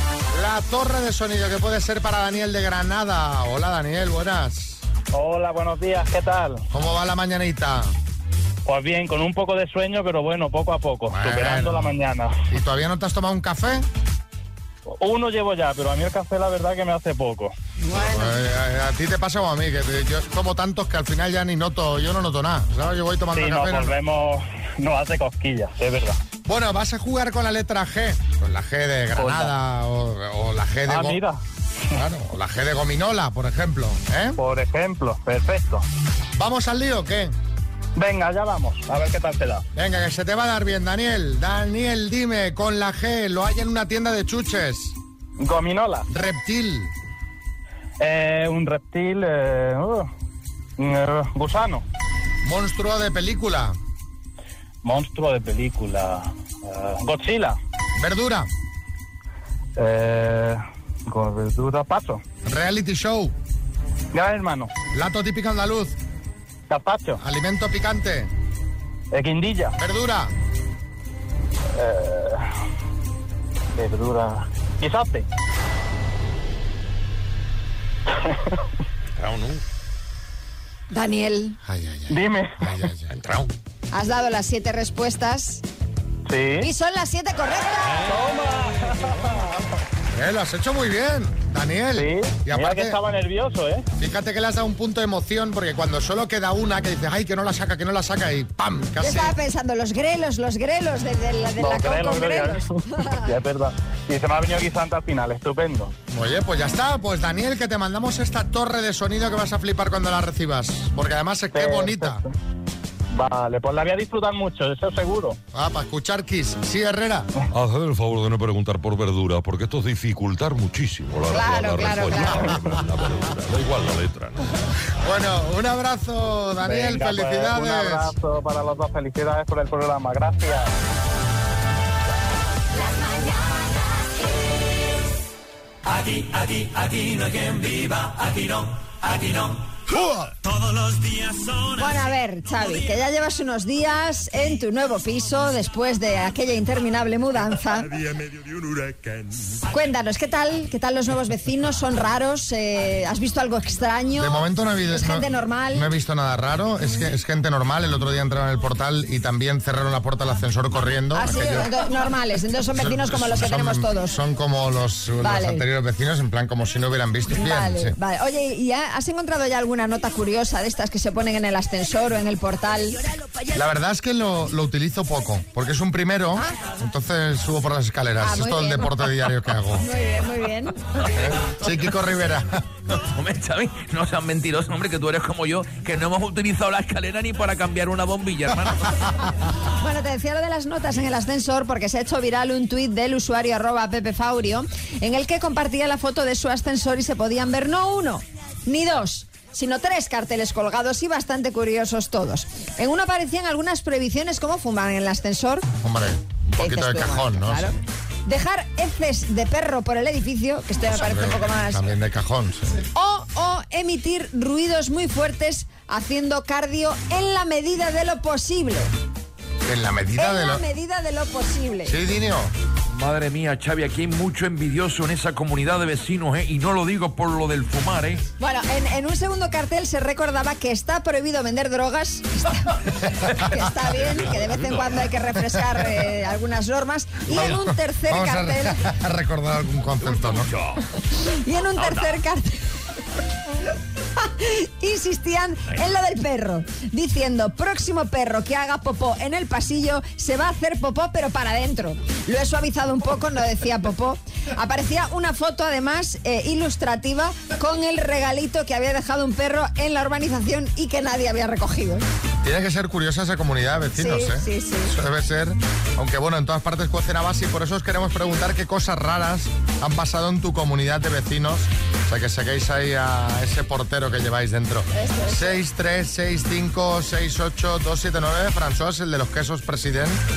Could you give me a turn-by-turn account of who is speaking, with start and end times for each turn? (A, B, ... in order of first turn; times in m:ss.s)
0:00.3-0:04.8 A
0:05.1-0:06.6 B
0:06.7-0:07.9 A
0:08.7-0:12.4 B
0:11.1-0:11.9 A
0:12.5-0:13.9 A
0:14.9-0:17.5 B
0:17.8-0:18.3 C
0:17.9-0:24.0 A
0:23.4-0:26.2 B
0:26.4-0:31.2 A
0:29.2-0:29.5 B
0:30.9-0:31.4 B
0:32.0-0:34.4 A
0:34.4-0:35.8 B
0:36.4-0:37.3 A
0:38.0-0:39.6 B
0:39.8-0:45.0 A
0:45.4-0:46.1 B
0:46.1-0:46.9 A
0:48.0-0:50.1 B
0:50.8-0:51.8 B
0:52.4-0:53.8 A
0:54.8-0:57.6 B
0:58.0-0:58.5 A
0:59.8-1:02.2 B
1:02.4-1:03.3 A
1:04.1-1:04.7 B
1:04.9-1:06.0 A
1:06.7-1:07.2 B
1:07.2-1:08.3 A
1:09.1-1:09.8 B
1:09.8-1:10.3 A
1:11.8-1:12.5 B
1:13.8-1:15.3 B
1:20.9-1:21.6 C
1:21.7-1:23.2 A
1:22.1-1:22.7 B
1:23.9-1:25.6 C
1:26.3-1:26.7 B
1:26.6-1:28.1 C
1:28.0-1:29.6 B
1:30.1-1:33.0 A
1:32.0-1:33.8 B
1:34.0-1:39.3 A
1:39.0-1:43.2 C
1:41.6-1:45.9 B
1:46.1-1:52.2 A
1:51.5-1:52.2 B
1:53.1-1:55.4 B
1:55.5-1:57.3 A
1:57.5-2:04.5 D
2:01.3-2:02.6 C
2:05.0-2:08.1 A
2:06.6-2:10.7 B
2:21.8-2:27.9 C
2:29.7-2:35.9 C
2:34.2-2:41.7 A
2:41.1-2:44.2 C
2:42.7-2:48.0 A
2:45.2-2:45.6 C
2:47.3-2:53.0 C
2:53.5-2:59.8 A
2:58.2-2:59.0 C
2:59.8-3:00.8 C
3:01.1-3:02.6 A
3:03.2-3:08.7 E
3:09.8-3:25.7 C
3:25.8-3:27.7 A
3:26.6-3:27.7 C
3:28.3-3:31.9 C
3:30.9-3:32.8 A
3:33.0-3:38.9 C
3:39.6-3:40.6 A
3:40.2-3:42.0 C
3:41.9-3:42.5 A
3:42.9-3:48.2 E
3:48.4-3:58.8 C
3:57.3-4:00.5 A
4:01.2-4:02.6 C
4:04.2-4:22.0 C
4:22.4-4:40.2 A
4:24.0-4:24.9 C
4:34.9-4:35.6 C